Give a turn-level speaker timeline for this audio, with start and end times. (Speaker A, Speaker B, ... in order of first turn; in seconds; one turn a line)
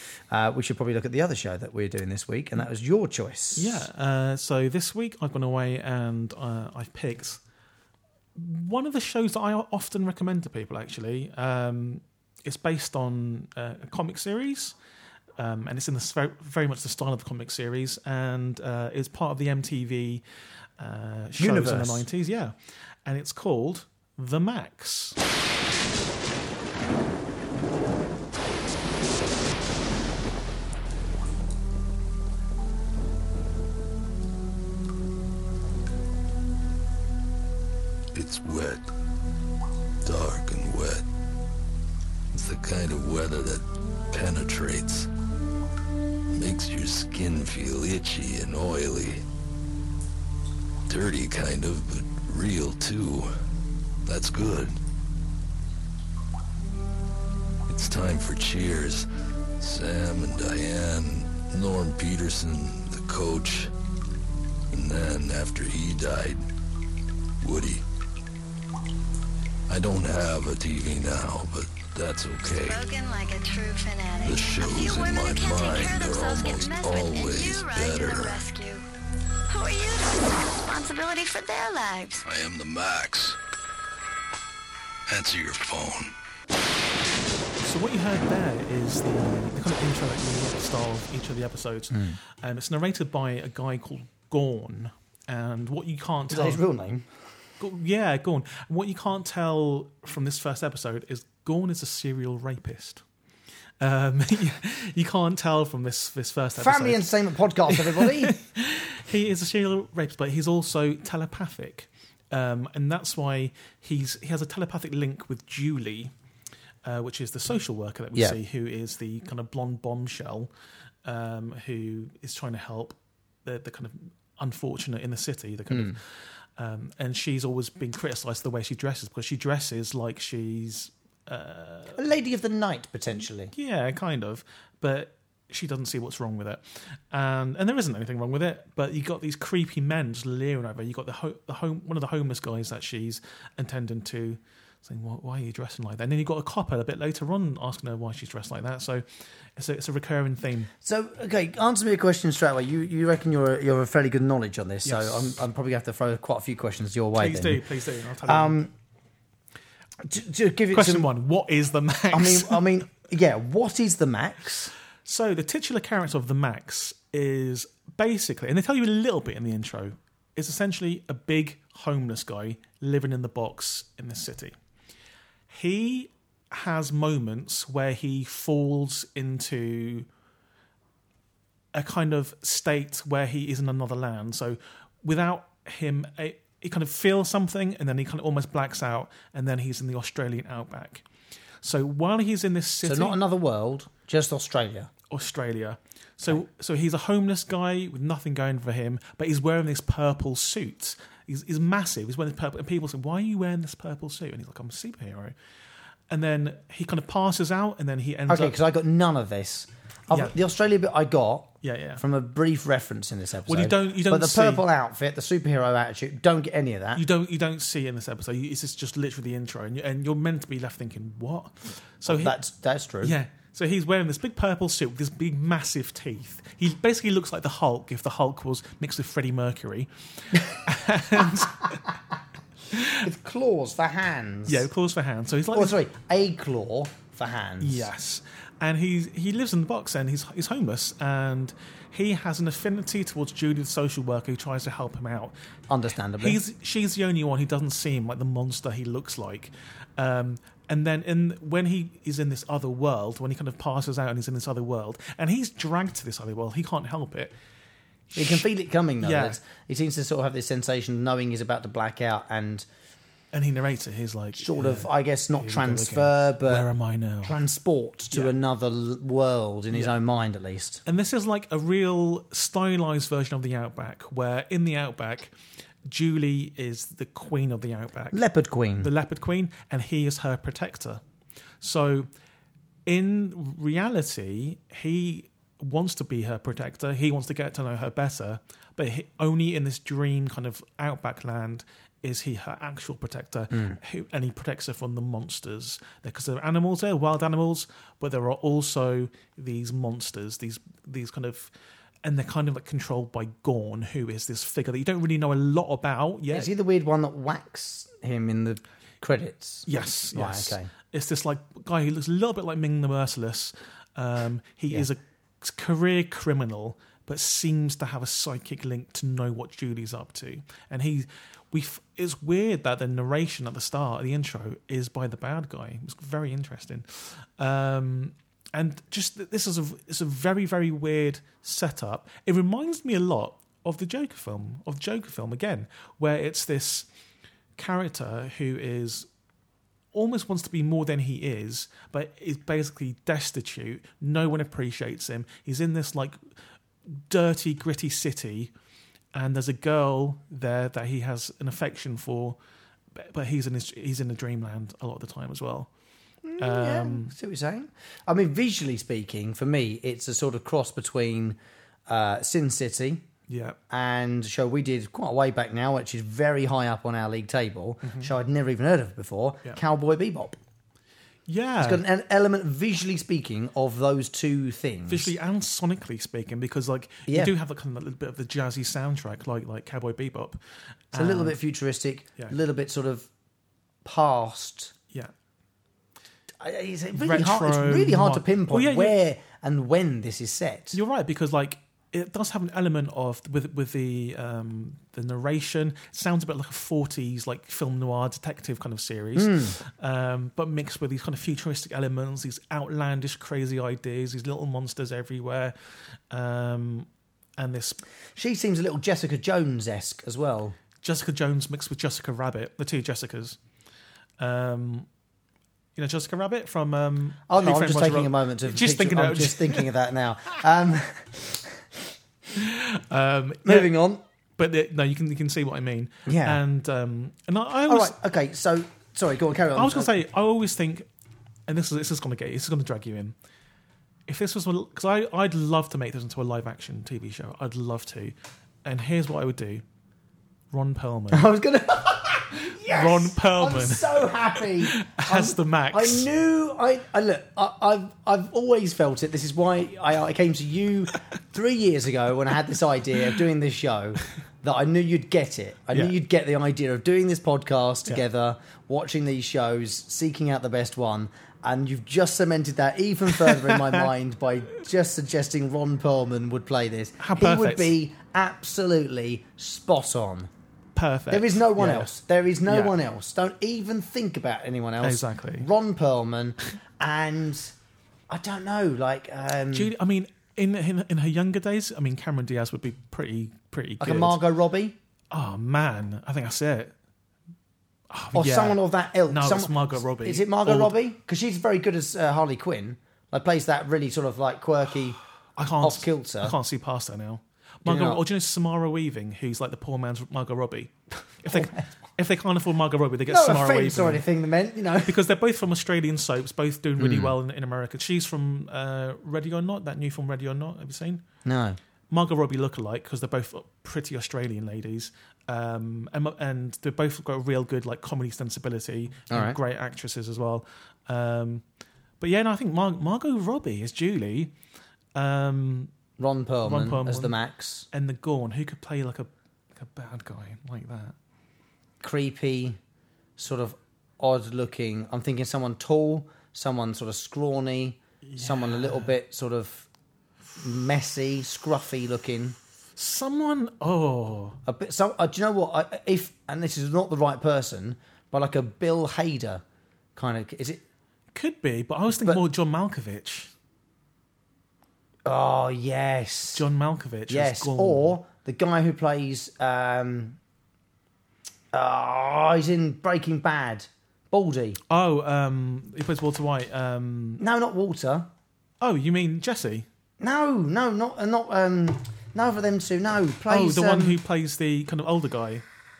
Speaker A: 0.3-3.9
Speaker B: 3.5-7.4
Speaker B: 8.3-14.7
Speaker B: 15.4-20.2
Speaker B: 20.8-25.2
Speaker A: 21.4-22.1
Speaker C: 38.1-38.8
Speaker C: 40.0-41.0
Speaker C: 42.3-45.1
Speaker C: 46.3-49.2
Speaker C: 50.9-53.3
Speaker C: 54.0-54.8
Speaker C: 57.7-59.1
Speaker C: 59.6-63.7
Speaker C: 64.7-66.4
Speaker C: 67.4-67.8
Speaker C: 69.7-72.8
Speaker D: 72.6-78.8
Speaker C: 74.2-78.4
Speaker D: 79.5-82.2
Speaker C: 82.2-83.4
Speaker C: 85.1-86.1
Speaker B: 87.6-96.6
Speaker A: 96.3-97.1
Speaker B: 97.6-103.0
Speaker B: 103.8-107.1
Speaker A: 106.6-108.4
Speaker B: 107.7-116.1
Speaker B: 116.8-120.5
Speaker B: 121.0-126.0
Speaker A: 125.7-126.0
Speaker B: 126.6-132.0
Speaker A: 131.9-133.5
Speaker B: 133.5-149.0
Speaker B: 149.6-150.7
Speaker A: 150.8-157.6
Speaker B: 154.8-155.3
Speaker B: 157.1-158.6
Speaker A: 158.2-158.7
Speaker A: 160.0-161.1
Speaker B: 160.7-162.7
Speaker A: 162.1-164.7
Speaker B: 165.0-174.6
Speaker B: 175.5-180.1
Speaker B: 181.7-191.1
Speaker B: 191.6-193.2
Speaker A: 192.8-194.9
Speaker B: 195.1-205.3
Speaker B: 206.1-208.6
Speaker A: 208.3-217.0
Speaker B: 211.6-212.0
Speaker B: 213.4-214.6
Speaker B: 216.9-222.4
Speaker A: 222.1-223.1
Speaker B: 223.0-231.8
Speaker B: 232.7-233.1
Speaker A: 233.0-234.7
Speaker B: 234.5-235.8
Speaker A: 235.5-237.9
Speaker B: 237.6-245.3
Speaker A: 245.7-246.4
Speaker B: 246.2-257.3
Speaker B: 258.1-258.4
Speaker A: 258.1-262.6
Speaker B: 259.0-259.4
Speaker B: 263.3-267.4
Speaker A: 264.4-266.7
Speaker A: 267.2-270.8
Speaker B: 270.8-275.3
Speaker B: 275.9-278.2
Speaker A: 278.1-278.9
Speaker B: 278.8-281.0
Speaker B: 281.6-282.1
Speaker B: 282.9-301.5
Speaker B: 302.0-306.5
Speaker A: 306.3-310.7
Speaker B: 309.6-336.9
Speaker B: 337.6-339.1
Speaker B: 339.9-346.2
Speaker B: 346.9-348.5
Speaker B: 349.1-352.4
Speaker B: 352.9-355.7
Speaker A: 356.2-363.0
Speaker B: 356.4-357.1
Speaker B: 363.3-363.6
Speaker A: 363.7-370.4
Speaker B: 367.8-368.1
Speaker B: 371.3-371.8
Speaker A: 371.6-375.1
Speaker B: 374.9-380.4
Speaker A: 377.1-377.3
Speaker B: 380.9-381.4
Speaker A: 380.9-383.1
Speaker A: 383.8-384.7
Speaker A: 386.4-390.8
Speaker B: 386.9-388.9
Speaker B: 390.7-405.5
Speaker A: 399.1-399.6
Speaker B: 406.1-407.8
Speaker A: 408.1-410.6
Speaker B: 410.8-413.4
Speaker B: 414.2-414.9
Speaker B: 415.8-419.7
Speaker A: 417.3-421.6
Speaker B: 422.3-423.7
Speaker A: 423.4-424.0
Speaker B: 424.4-427.9
Speaker A: 426.1-426.4
Speaker A: 427.7-429.9
Speaker B: 429.6-430.9
Speaker B: 431.5-433.1
Speaker B: 434.1-439.6
Speaker B: 440.5-441.3
Speaker A: 441.1-470.3
Speaker B: 442.5-446.1
Speaker B: 463.2-463.8
Speaker B: 467.0-467.8
Speaker B: 470.7-471.9
Speaker A: 471.1-477.5
Speaker B: 472.4-472.7
Speaker B: 474.8-475.5
Speaker A: 478.1-479.7
Speaker B: 479.5-484.2
Speaker A: 483.8-484.8
Speaker B: 485.1-486.7
Speaker B: 487.9-490.8
Speaker A: 488.1-495.0
Speaker B: 495.4-504.0
Speaker A: 495.6-496.4
Speaker A: 497.6-498.0
Speaker A: 501.3-501.6
Speaker A: 503.1-504.9
Speaker B: 504.8-511.0
Speaker A: 506.8-507.1
Speaker A: 511.2-511.6
Speaker B: 511.9-521.4
Speaker A: 519.1-519.4
Speaker B: 522.0-524.3
Speaker B: 524.9-525.7
Speaker A: 526.0-527.7
Speaker B: 526.4-527.1
Speaker B: 527.7-530.9
Speaker A: 531.8-532.6
Speaker A: 533.2-539.7
Speaker B: 538.0-538.9
Speaker A: 540.4-542.4
Speaker B: 542.8-544.4
Speaker A: 544.4-549.4
Speaker A: 550.0-550.6
Speaker B: 551.1-553.3
Speaker A: 555.0-556.4
Speaker B: 556.3-557.9
Speaker A: 557.1-560.2
Speaker A: 561.5-564.6
Speaker B: 564.7-567.2
Speaker A: 567.2-568.1
Speaker B: 568.6-569.7
Speaker A: 570.0-574.0
Speaker B: 573.3-575.4